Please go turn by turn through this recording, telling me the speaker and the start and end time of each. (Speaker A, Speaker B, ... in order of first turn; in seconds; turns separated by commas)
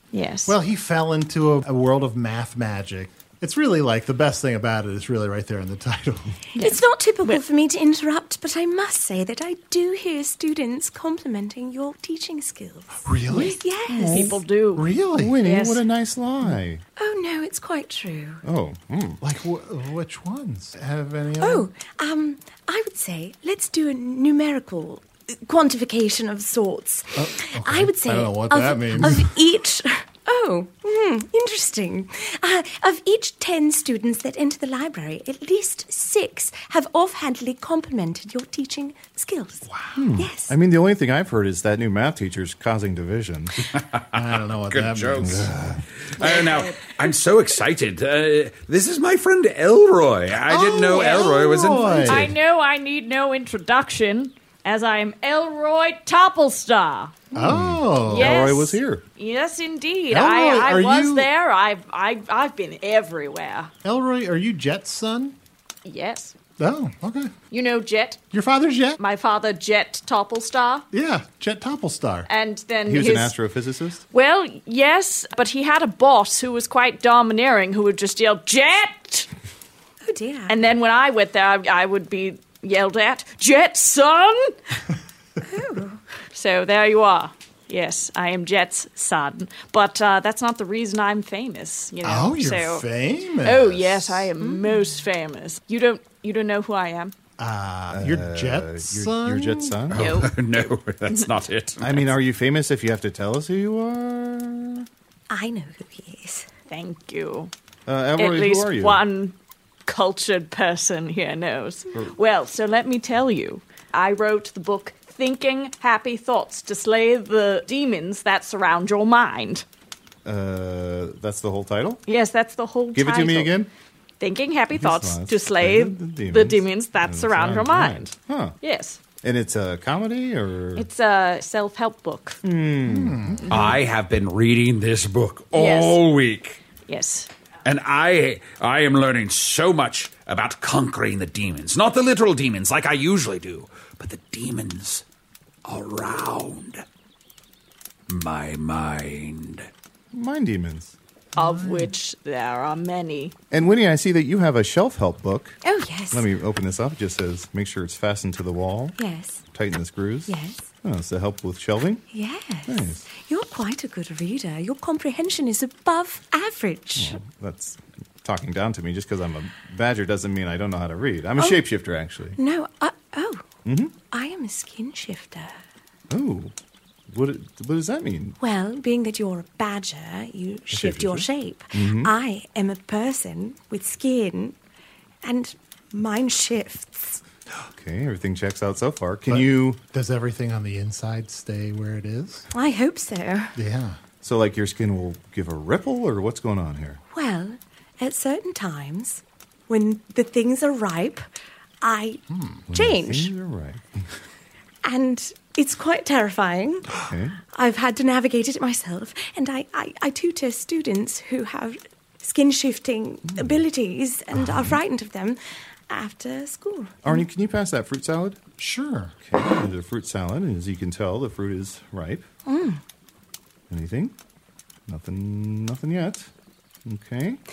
Speaker A: 0.1-0.5, Speaker B: 0.5-6.3, Speaker C: 6.5-14.4, Speaker A: 6.6-7.4, Speaker B: 13.0-13.6, Speaker D: 13.3-14.4, Speaker A: 14.1-14.8, Speaker B: 14.7-15.4, Speaker D: 15.2-16.8, Speaker A: 15.4-15.8, Speaker C: 17.0-18.4, Speaker D: 18.4-19.2, Speaker B: 19.2-21.7, Speaker C: 21.4-40.5, Speaker B: 27.1-29.4, Speaker B: 39.7-40.0, Speaker D: 39.9-43.5, Speaker E: 43.7-45.5, Speaker B: 44.1-45.5, Speaker D: 45.2-45.8, Speaker E: 46.0-52.3, Speaker B: 50.5-52.3, Speaker A: 50.9-57.2, Speaker B: 57.3-58.3, Speaker D: 57.4-59.0, Speaker A: 58.1-63.7, Speaker B: 60.1-61.3, Speaker B: 63.8-65.4, Speaker A: 65.8-66.3, Speaker B: 66.6-67.3, Speaker A: 67.5-68.2, Speaker B: 68.3-69.0, Speaker A: 69.0-70.9, Speaker B: 70.9-72.3, Speaker A: 72.3-73.3, Speaker D: 72.9-74.0, Speaker A: 74.1-79.3, Speaker C: 80.0-80.6, Speaker A: 80.5-84.5, Speaker C: 85.4-86.0, Speaker A: 86.3-92.8, Speaker B: 92.0-94.3, Speaker A: 93.4-97.1, Speaker C: 94.4-95.0, Speaker B: 97.4-99.8, Speaker D: 97.9-100.1, Speaker E: 99.9-102.1, Speaker A: 100.0-100.3, Speaker D: 101.8-104.9, Speaker C: 105.3-106.5, Speaker A: 106.7-107.5, Speaker D: 107.9-109.0, Speaker A: 108.2-109.3, Speaker A: 109.9-119.6, Speaker D: 120.2-122.0, Speaker A: 122.1-123.5, Speaker D: 122.9-123.7, Speaker A: 124.2-129.0, Speaker D: 124.7-128.6, Speaker D: 129.2-130.9, Speaker A: 130.8-132.4, Speaker D: 132.4-133.4, Speaker B: 132.8-133.5, Speaker E: 133.5-136.6, Speaker A: 135.5-136.0, Speaker A: 136.9-137.3, Speaker E: 137.6-145.0, Speaker E: 145.6-146.8, Speaker E: 148.1-149.7, Speaker D: 150.1-150.9, Speaker A: 151.4-153.3, Speaker B: 151.4-151.9, Speaker D: 153.5-155.6, Speaker C: 155.6-156.2, Speaker D: 156.1-158.9, Speaker C: 159.0-159.4, Speaker D: 159.5-162.0, Speaker C: 160.3-160.7, Speaker C: 162.1-167.2, Speaker D: 162.7-163.0, Speaker D: 166.9-172.4, Speaker C: 172.4-173.4, Speaker D: 173.6-173.9, Speaker C: 174.1-175.6, Speaker D: 176.1-176.5, Speaker D: 177.1-178.4, Speaker C: 178.4-184.6, Speaker D: 180.7-182.1, Speaker C: 185.2-187.2, Speaker D: 187.7-189.8, Speaker B: 189.3-192.5, Speaker C: 192.5-193.6, Speaker B: 193.6-194.0, Speaker D: 194.2-197.0, Speaker C: 197.1-201.2, Speaker C: 201.8-203.3, Speaker B: 202.3-202.7, Speaker D: 202.7-204.1, Speaker C: 204.8-206.9, Speaker D: 207.0-207.4, Speaker C: 207.5-215.4, Speaker D: 213.3-213.6, Speaker D: 214.4-214.8, Speaker C: 215.9-217.2, Speaker D: 217.0-218.4, Speaker B: 218.6-219.1, Speaker D: 219.2-222.2, Speaker C: 222.4-222.8, Speaker D: 223.7-224.1, Speaker D: 224.9-226.3, Speaker D: 226.8-227.4